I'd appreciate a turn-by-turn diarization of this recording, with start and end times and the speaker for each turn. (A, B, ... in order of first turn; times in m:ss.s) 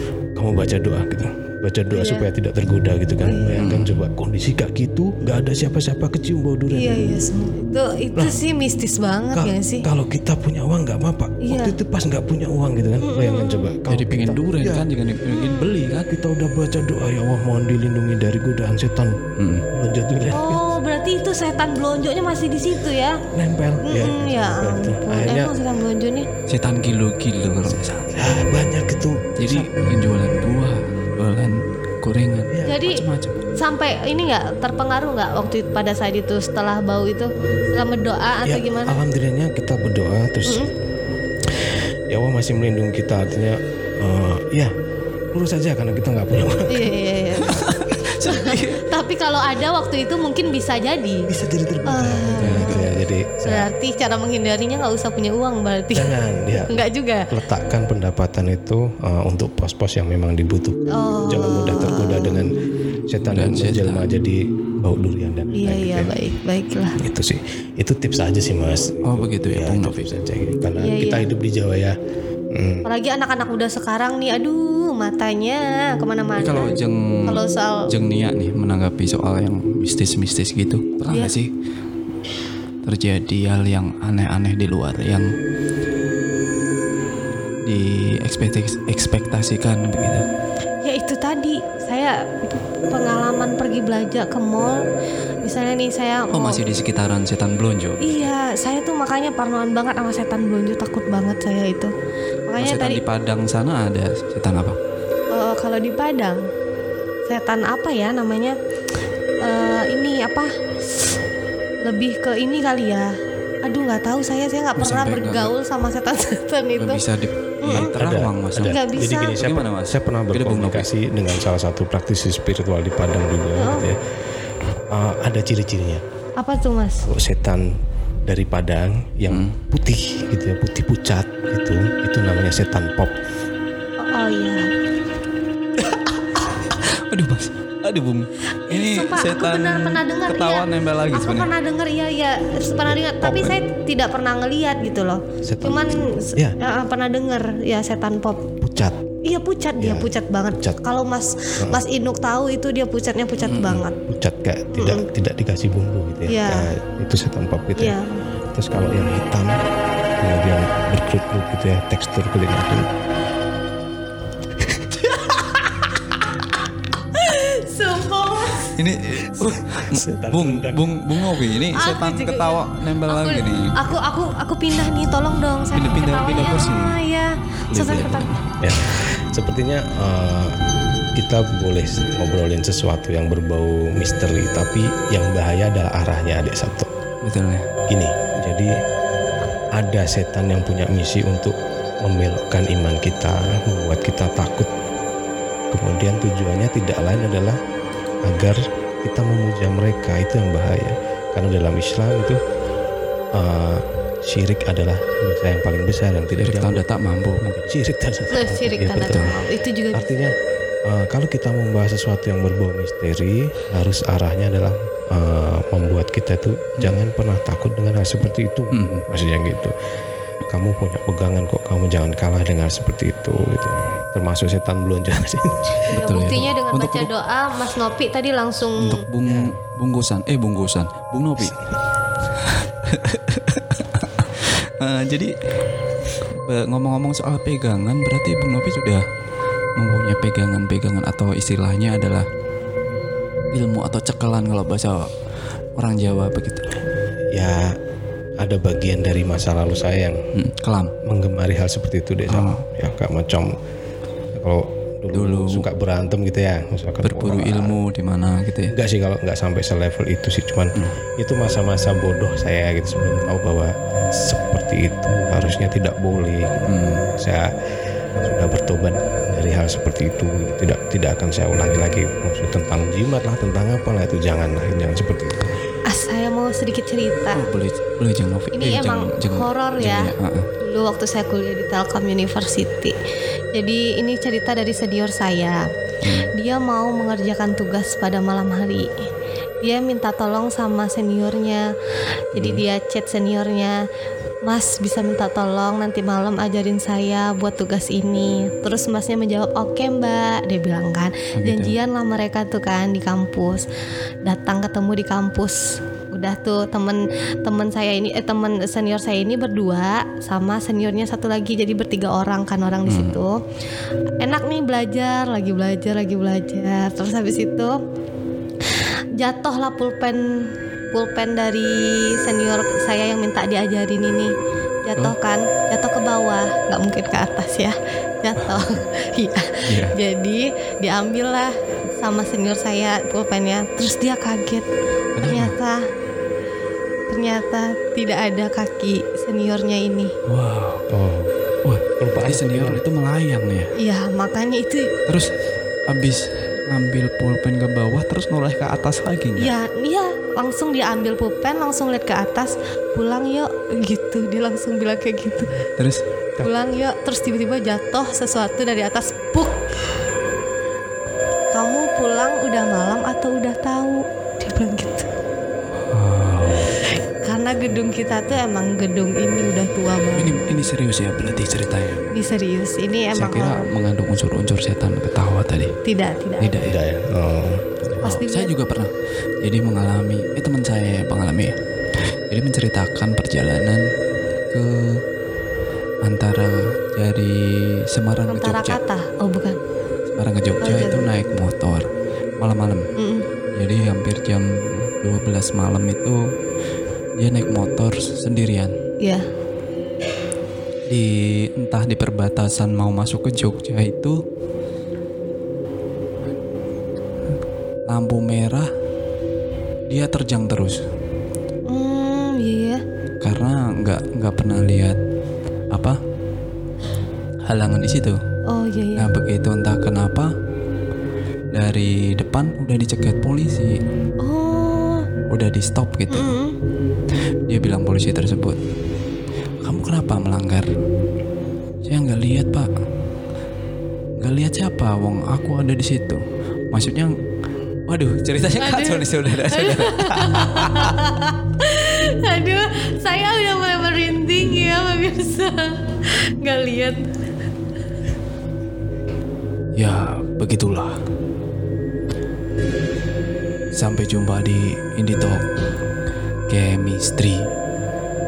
0:00.4-0:06.9 A
0:01.9-0:02.3 B
0:03.2-0:03.6 B
0:03.6-0:03.9 C
0:06.7-0:09.8 B
0:09.3-0:14.9 A
0:11.4-0:11.7 B
0:13.0-0:13.7 B
0:13.9-0:16.1 C
0:15.3-0:15.8 B
0:15.9-0:19.2 A
0:19.4-0:19.6 C
0:19.7-0:20.6 A
0:20.3-0:23.2 B
0:23.3-0:25.5 A
0:23.8-0:26.3 B
0:26.5-0:28.2 C
0:28.1-0:29.7 A
0:29.4-0:33.4 C
0:32.5-0:32.8 A
0:32.6-0:33.0 B
0:33.6-0:39.0 B
0:38.4-0:40.7 A
0:41.5-0:44.7 A
0:45.3-0:46.9 A
0:46.7-0:47.6 B
0:47.4-0:48.8 C
0:48.2-0:51.3 B
0:51.3-0:53.7 A
0:51.8-0:56.1 B
0:52.4-0:52.8 C
0:55.9-1:02.5 A
0:56.7-0:57.2 B
1:00.9-1:02.4 B
1:03.1-1:06.1 A
1:03.2-1:04.0 C
1:05.5-1:07.0 B
1:07.0-1:11.9 A
1:09.0-1:10.1 C
1:10.8-1:11.3 B
1:12.5-1:12.8 A
1:12.8-1:16.7 B
1:16.4-1:21.5 C
1:17.2-1:17.8 B
1:22.8-1:25.3 C
1:27.6-1:30.2 C
1:30.8-1:34.8 B
1:35.4-1:36.6 B
1:36.3-1:38.3 C
1:38.0-1:41.9 B
1:42.5-1:43.0 B
1:42.6-1:44.8 C
1:45.3-1:46.4 B
1:47.3-1:48.5 B
1:49.4-1:50.5 B
1:51.8-1:53.1 B
1:53.6-1:57.0 B
1:54.8-1:55.5 C
1:56.8-1:58.8 C
1:57.6-1:57.9 B
1:57.7-2:04.0 A
1:58.6-1:59.3 B
1:59.3-2:00.9 C
2:03.5-2:03.9 B
2:04.9-2:06.0 A
2:06.4-2:07.1 B
2:07.0-2:07.7 A
2:08.2-2:13.1 A
2:09.3-2:09.6 C
2:14.0-2:14.7 B
2:15.8-2:21.5 C
2:18.7-2:28.4 B
2:22.8-2:23.6 A
2:25.4-2:26.6 A
2:28.6-2:29.1 A
2:29.2-2:34.0 B
2:29.8-2:30.8 A
2:33.4-2:33.9 C
2:34.0-2:38.0 A
2:34.7-2:35.1 B
2:36.3-2:36.7 B
2:37.8-2:38.2 B
2:38.5-2:39.6 A
2:40.2-2:42.8 A
2:45.2-2:45.6 B
2:47.1-2:48.8 B
2:48.7-2:53.7 C
2:49.6-2:50.9 A
2:51.6-2:58.3 B
2:55.7-2:57.0 C
2:57.7-2:58.5 C
2:58.6-3:00.6 A
3:01.2-3:06.9 A
3:07.2-3:07.6 C
3:07.9-3:08.7 A
3:09.8-3:14.7 A
3:15.7-3:17.6 A
3:18.2-3:22.4 A
3:23.3-3:26.8 A
3:26.4-3:27.8 C
3:27.5-3:29.4 A
3:28.3-3:30.4 B
3:29.0-3:29.4 C
3:29.9-3:30.3 A
3:30.9-3:39.7 A
3:38.7-3:39.0 C
3:40.5-3:46.0 A
3:45.9-3:49.0 B
3:45.9-3:47.1 C
3:48.8-3:51.5 C
3:49.2-3:49.6 A
3:52.4-3:54.2 C
3:54.8-3:55.3 C
3:56.4-3:59.0 C
3:59.8-4:02.2 C
4:03.5-4:05.1 C
4:05.8-4:06.7 C
4:07.3-4:07.7 A
4:08.4-4:10.2 A
4:10.3-4:10.9 C
4:11.0-4:13.5 A
4:12.3-4:12.6 C
4:14.4-4:17.8 A
4:15.1-4:15.6 C
4:17.0-4:18.7 C
4:18.7-4:27.4 A
4:26.7-4:27.1 C
4:28.2-4:35.4 A
4:35.9-4:37.5 B
4:37.3-4:40.5 C
4:38.5-4:42.9 B
4:43.5-4:45.6 B
4:46.0-4:46.3 C
4:46.4-4:48.9 B
4:49.6-4:51.6 B
4:52.3-4:53.8 B
4:52.3-4:52.6 C
4:54.4-5:03.6 B
5:01.3-5:01.8 C
5:04.2-5:13.4 B
5:12.8-5:13.2 C
5:14.2-5:17.7 B
5:19.2-5:24.3 B
5:24.8-5:34.6 B
5:28.4-5:28.8 C
5:29.6-5:29.9 C
5:35.2-5:35.5 C
5:35.2-5:35.8 B
5:37.1-5:40.1 B
5:40.2-5:40.9 C
5:40.9-5:41.3 A
5:41.6-5:43.7 C
5:42.0-5:42.8 A
5:43.8-5:44.9 B
5:45.9-5:49.5 C
5:49.4-5:55.5 B
5:56.4-5:59.6 B
6:01.5-6:05.1 B
6:05.8-6:06.7 C
6:07.2-6:10.7 B
6:10.2-6:12.2 C
6:12.1-6:13.7 B
6:13.1-6:15.7 C
6:15.8-6:16.6 B
6:16.4-6:16.8 C
6:16.6-6:18.2 A
6:18.0-6:18.9 C
6:18.0-6:18.5 B
6:19.4-6:21.6 C
6:22.3-6:23.8 C
6:24.5-6:25.0 C
6:26.0-6:27.4 C
6:27.9-6:28.8 C
6:28.3-6:29.6 B
6:30.1-6:31.8 C
6:30.6-6:31.1 B
6:32.4-6:32.9 C
6:33.0-6:33.2 B
6:33.5-6:36.2 C
6:37.2-6:38.7 C
6:40.9-6:44.1 C
6:47.9-6:48.7 C
6:49.9-6:50.8 C
6:51.7-6:52.8 B
6:53.2-6:55.0 C
6:57.4-6:58.2 C
6:58.5-6:59.1 B
6:59.0-7:00.3 C
7:01.5-7:03.7 C
7:04.2-7:05.0 B
7:05.3-7:06.3 C
7:06.1-7:06.5 B
7:07.5-7:08.6 C
7:09.6-7:10.7 C
7:11.8-7:12.7 C
7:14.2-7:16.2 C
7:16.7-7:17.1 C
7:17.9-7:20.9 C
7:18.6-7:25.7 B
7:26.4-7:27.0 B
7:29.8-7:30.9 C
7:33.8-7:35.4 C
7:36.5-7:37.5 C